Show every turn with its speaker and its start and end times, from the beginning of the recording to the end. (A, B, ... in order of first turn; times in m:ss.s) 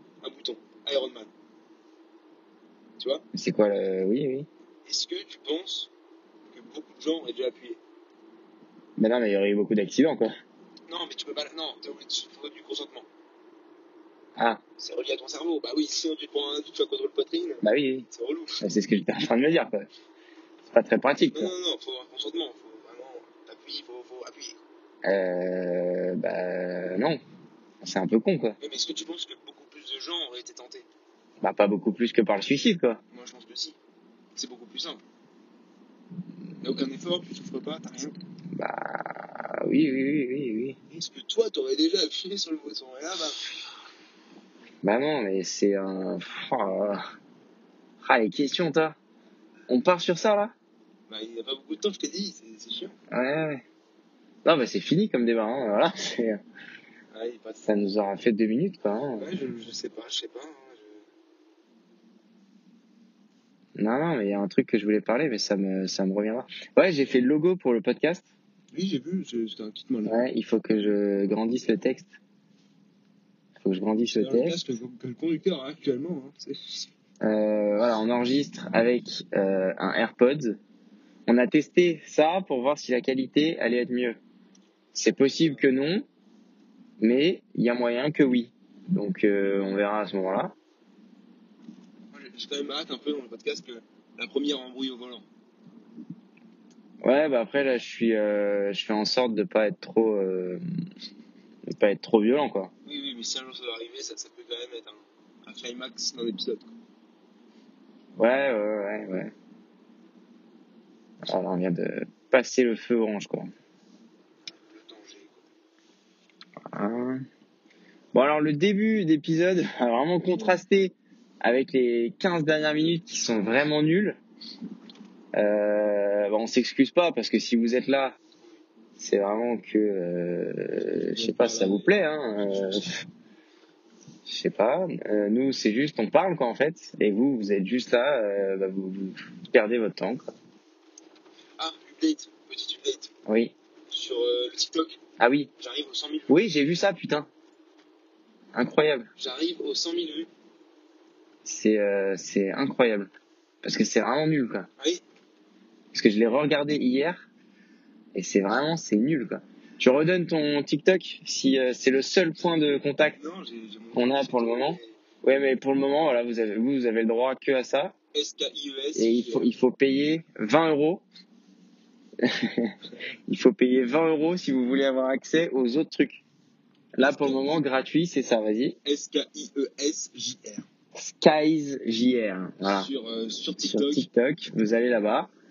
0:00.2-0:01.3 A
0:03.0-0:03.2 A
0:03.3-0:04.5 B
0:04.8-0:05.9 A
0:06.5-0:07.8 A
0:09.0-0:10.3 B
0:10.9-0:13.1 A
0:14.4-0:14.6 B
0:14.8-0:18.6 A
0:17.6-0:18.1 B
0:18.6-0:19.9 B
0:20.7-0:21.5 B
0:21.3-0:24.6 A
0:25.0-0:27.2 B
0:27.8-0:28.6 B
0:28.6-0:30.9 A
0:31.4-0:33.0 B
0:33.1-0:33.8 A
0:34.4-0:35.0 A
0:36.6-0:38.2 A
0:38.5-0:40.8 B
0:40.9-0:43.4 A
0:44.8-0:47.1 B
0:48.0-0:49.0 B
0:49.7-0:50.5 B
0:51.1-0:53.0 A
0:53.1-0:53.6 B
0:54.4-0:56.4 B
0:57.1-0:57.7 A
0:57.6-0:59.3 B
0:59.2-1:01.1 A
1:03.8-1:08.2 B
1:08.7-1:10.2 A
1:10.0-1:12.1 B
1:13.6-1:14.6 B
1:14.1-1:16.9 A
1:17.2-1:20.6 B
1:21.3-1:24.2 B
1:24.9-1:26.0 B
1:25.4-1:25.6 A
1:27.0-1:30.5 B
1:32.1-1:35.3 A
1:37.0-1:40.6 B
1:41.7-1:42.7 B
1:42.8-1:46.8 A
1:48.2-1:49.3 B
1:51.2-1:53.5 B
1:54.5-1:55.5 A
1:56.7-1:57.2 B
1:58.1-2:04.2 B
2:05.3-2:08.2 B
2:08.4-2:08.6 A
2:09.0-2:13.0 B
2:11.1-2:13.0 A
2:14.3-2:20.2 B
2:21.6-2:23.1 A
2:23.2-2:23.5 B
2:23.9-2:25.0 A
2:25.2-2:25.5 B
2:25.6-2:26.7 A
2:26.3-2:27.3 B
2:28.5-2:29.1 B
2:29.2-2:30.3 A
2:31.4-2:33.1 B
2:33.6-2:34.7 B
2:35.9-2:37.2 B
2:38.1-2:43.2 B
2:43.1-2:45.0 A
2:43.9-2:47.9 B
2:48.1-2:49.5 A
2:49.0-2:51.0 B
2:52.2-2:52.8 B
2:53.3-2:56.2 B
2:57.0-2:58.8 B
2:57.0-2:57.6 A
2:58.8-3:00.7 A
3:00.9-3:02.9 B
3:02.6-3:04.1 A
3:03.6-3:05.3 B